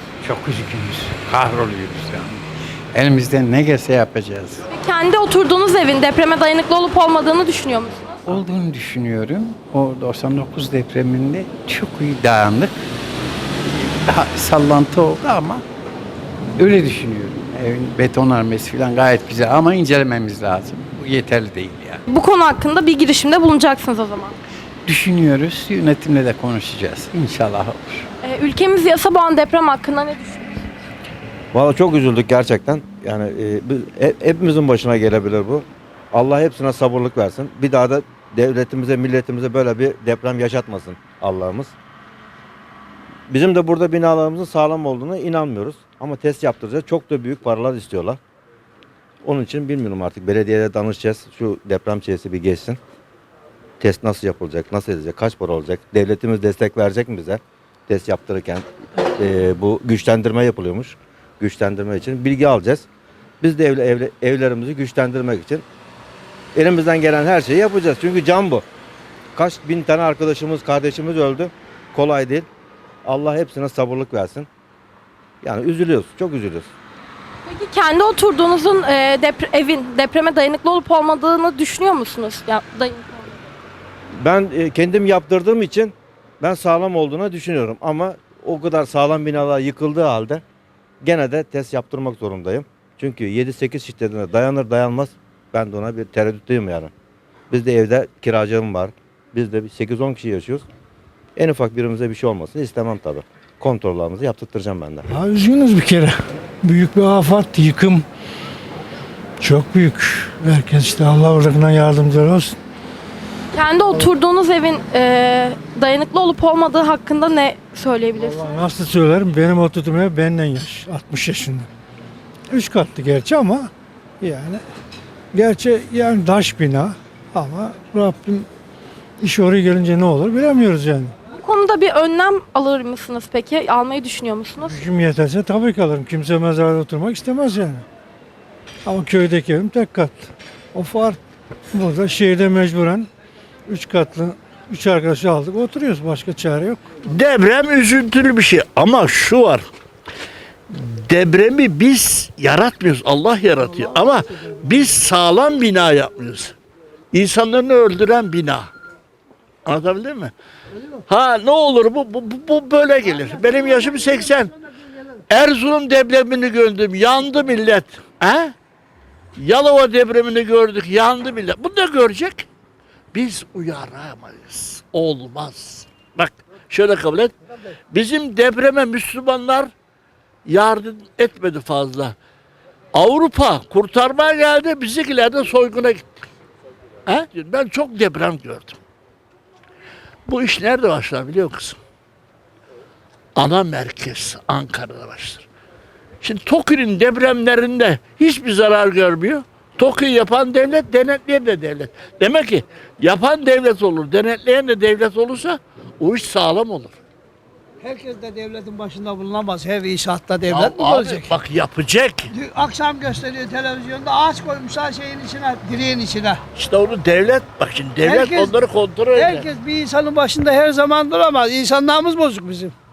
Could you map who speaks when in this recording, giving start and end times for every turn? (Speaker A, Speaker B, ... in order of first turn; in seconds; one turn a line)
Speaker A: 0.3-2.4
Speaker A: 2.9-4.6
Speaker B: 4.7-8.4
Speaker A: 8.3-12.7
Speaker A: 14.1-15.6
Speaker A: 16.6-22.0
Speaker B: 22.1-24.4
Speaker A: 24.9-28.1
Speaker B: 28.2-30.7
Speaker C: 31.5-41.7
Speaker C: 43.3-48.2
Speaker C: 49.2-52.8
Speaker C: 53.8-58.6
Speaker C: 59.2-62.8
Speaker C: 63.4-65.6
Speaker C: 66.5-68.6
Speaker C: 69.3-72.5
Speaker C: 73.0-74.5
Speaker C: 75.4-76.7
Speaker B: 77.5-83.4
Speaker C: 84.2-90.4
Speaker C: 91.0-96.9
Speaker C: 97.5-100.6
Speaker C: 101.3-105.0
Speaker D: 105.1-108.0
Speaker D: 109.4-112.6
Speaker B: 113.5-118.6
Speaker D: 118.2-121.7
Speaker D: 122.5-124.6
Speaker D: 125.3-128.4
Speaker D: 129.2-131.1
Speaker B: 131.3-134.8
Speaker D: 134.6-137.8
Speaker D: 138.8-141.2
Speaker D: 141.7-143.1
Speaker D: 143.7-146.8
Speaker E: 147.1-149.6
Speaker E: 150.7-156.5
Speaker E: 157.1-158.7
Speaker E: 159.7-160.3
Speaker E: 161.1-164.5
Speaker E: 165.3-168.5
Speaker E: 169.3-172.4
Speaker E: 173.1-177.3
Speaker E: 177.9-179.7
Speaker E: 180.4-182.2
Speaker E: 182.9-186.2
Speaker E: 187.1-188.8
Speaker E: 190.2-191.8
Speaker E: 193.3-195.5
Speaker E: 196.2-207.0
Speaker F: 207.8-211.3
Speaker E: 210.5-212.3
Speaker F: 212.3-216.4
Speaker E: 216.5-219.5
Speaker F: 218.0-218.5
Speaker F: 219.1-222.7